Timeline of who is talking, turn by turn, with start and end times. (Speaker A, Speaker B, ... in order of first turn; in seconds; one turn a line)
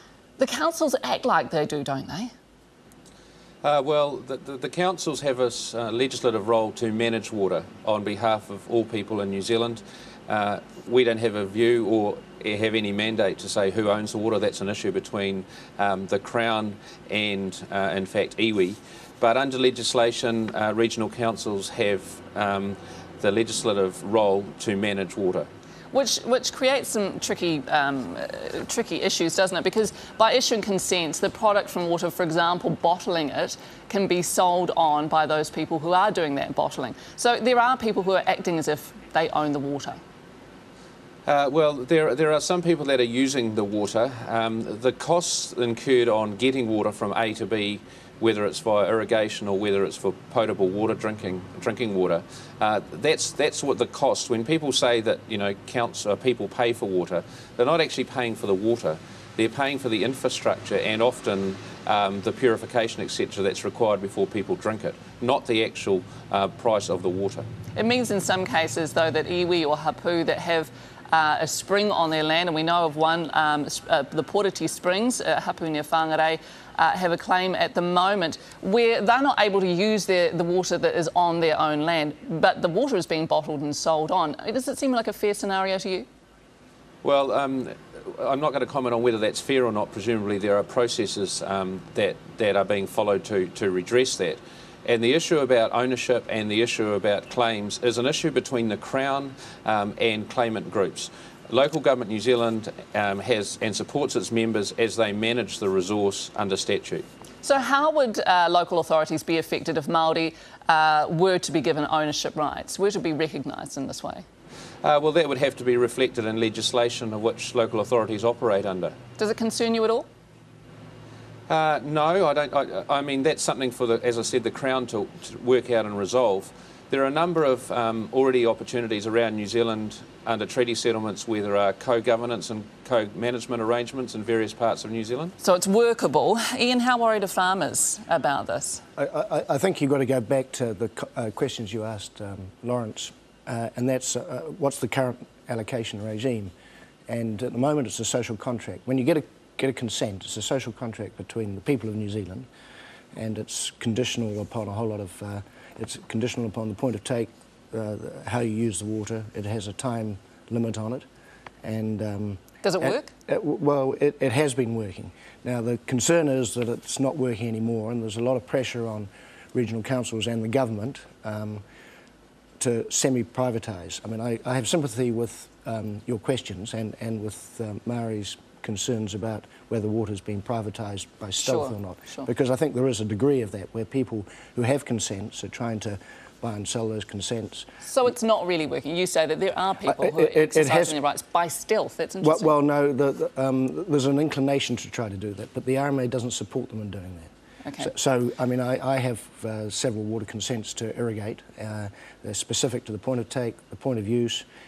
Speaker A: 0.4-2.3
Speaker B: 3.6-25.5
Speaker A: 25.9-40.0
Speaker B: 41.3-67.5
Speaker A: 67.8-86.1
Speaker B: 87.0-107.0
Speaker A: 107.4-114.2
Speaker B: 114.8-119.0
Speaker A: 119.2-120.1
Speaker B: 121.5-135.3
Speaker A: 135.4-138.8
Speaker C: 139.0-146.5
Speaker C: 147.1-152.5
Speaker C: 153.2-161.1
Speaker C: 161.6-171.6
Speaker A: 162.6-163.1
Speaker C: 172.6-188.1
Speaker A: 181.4-182.3
Speaker A: 187.8-192.5
Speaker C: 189.8-191.0
Speaker C: 192.2-204.4
Speaker A: 197.6-197.9